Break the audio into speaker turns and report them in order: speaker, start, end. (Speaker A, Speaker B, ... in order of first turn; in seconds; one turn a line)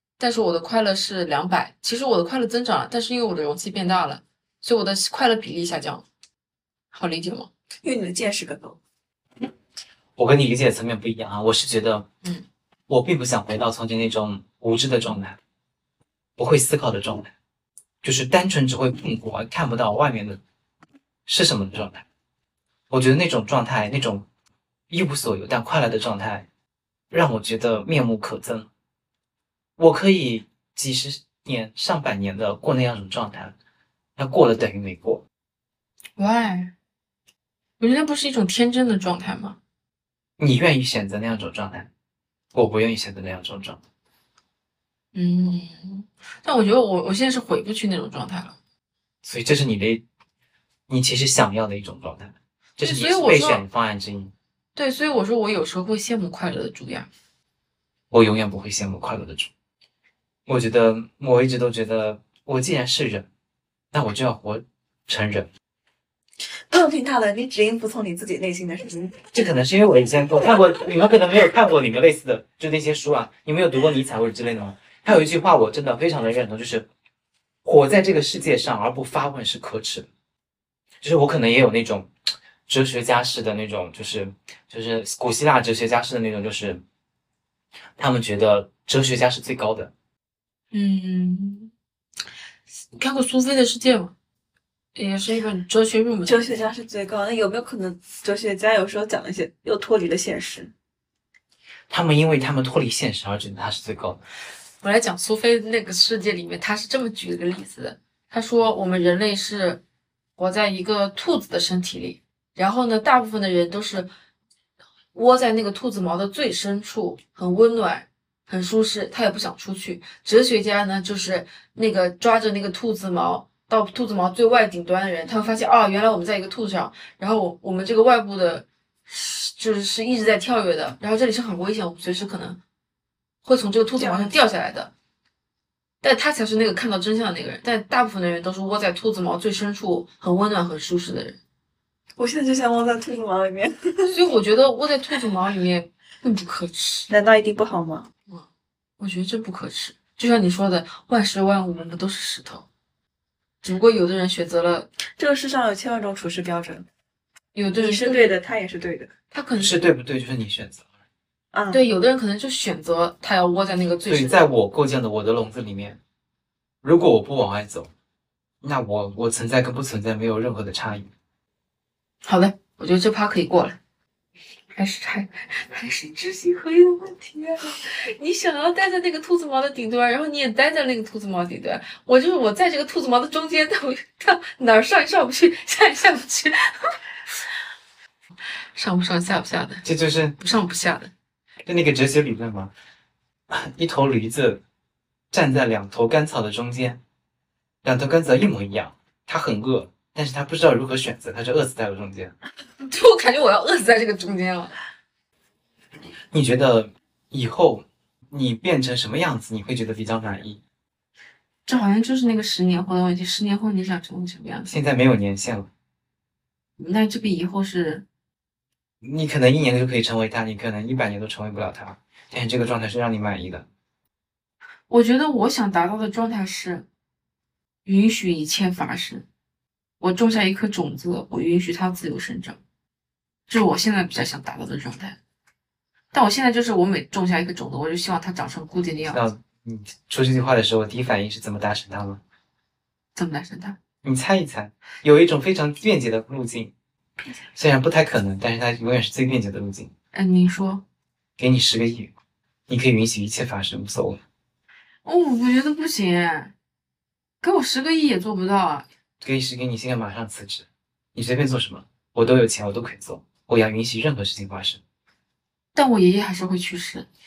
Speaker A: 0.2-6.0
Speaker A: 6.9-7.5
Speaker B: 7.8-8.8
Speaker C: 10.2-12.1
Speaker C: 12.9-15.4
Speaker C: 16.4-17.3
Speaker C: 18.0-20.4
Speaker C: 21.2-22.0
Speaker C: 22.9-24.2
Speaker C: 24.9-26.5
Speaker C: 27.1-28.7
Speaker C: 29.8-33.5
Speaker C: 34.2-35.2
Speaker A: 36.2-36.7
Speaker A: 37.8-39.6
Speaker C: 40.4-41.9
Speaker C: 42.5-43.8
Speaker A: 45.1-48.5
Speaker C: 49.2-50.0
Speaker C: 50.9-54.3
Speaker A: 52.8-53.6
Speaker A: 54.7-57.1
Speaker C: 58.1-59.5
Speaker C: 60.5-63.3
Speaker C: 63.9-65.5
Speaker B: 66.7-69.3
Speaker C: 69.3-76.9
Speaker C: 77.6-80.1
Speaker C: 81.0-82.1
Speaker C: 82.7-86.8
Speaker C: 88.0-89.9
Speaker A: 90.7-91.7
Speaker A: 92.9-94.1
Speaker A: 94.9-96.6
Speaker B: 96.2-100.7
Speaker C: 101.9-104.2
Speaker A: 104.8-109.8
Speaker A: 110.4-114.1
Speaker A: 115.1-132.6
Speaker A: 133.4-134.9
Speaker B: 134.0-134.3
Speaker A: 136.0-141.4
Speaker B: 142.2-144.2
Speaker A: 144.1-147.1
Speaker B: 147.1-148.1
Speaker A: 149.0-152.7
Speaker A: 153.6-154.9
Speaker B: 155.2-156.9
Speaker A: 157.5-158.3
Speaker B: 157.8-159.1
Speaker A: 159.3-159.8
Speaker C: 159.6-160.8
Speaker B: 161.5-161.8
Speaker A: 161.7-164.4
Speaker C: 164.1-166.0
Speaker C: 166.8-167.9
Speaker C: 168.6-171.1
Speaker A: 172.2-173.8
Speaker A: 174.7-186.9
Speaker A: 188.7-189.8
Speaker C: 189.8-190.4
Speaker A: 190.4-191.1
Speaker C: 191.7-192.7
Speaker C: 193.5-194.6
Speaker C: 195.3-197.0
Speaker C: 197.8-202.3
Speaker A: 202.8-204.7
Speaker C: 206.3-210.6
Speaker A: 211.7-214.7
Speaker C: 214.7-215.7
Speaker A: 216.8-218.0
Speaker C: 219.0-223.7
Speaker A: 224.9-226.9
Speaker A: 227.8-229.2
Speaker A: 230.0-232.6
Speaker A: 233.5-235.2
Speaker A: 236.1-239.3
Speaker C: 239.1-242.2
Speaker A: 243.1-243.8
Speaker C: 244.0-246.7
Speaker C: 247.5-249.9
Speaker A: 250.1-250.8
Speaker C: 251.4-252.1
Speaker C: 252.7-254.2
Speaker A: 255.0-256.5
Speaker A: 257.4-258.9
Speaker C: 259.2-264.8
Speaker A: 265.7-267.1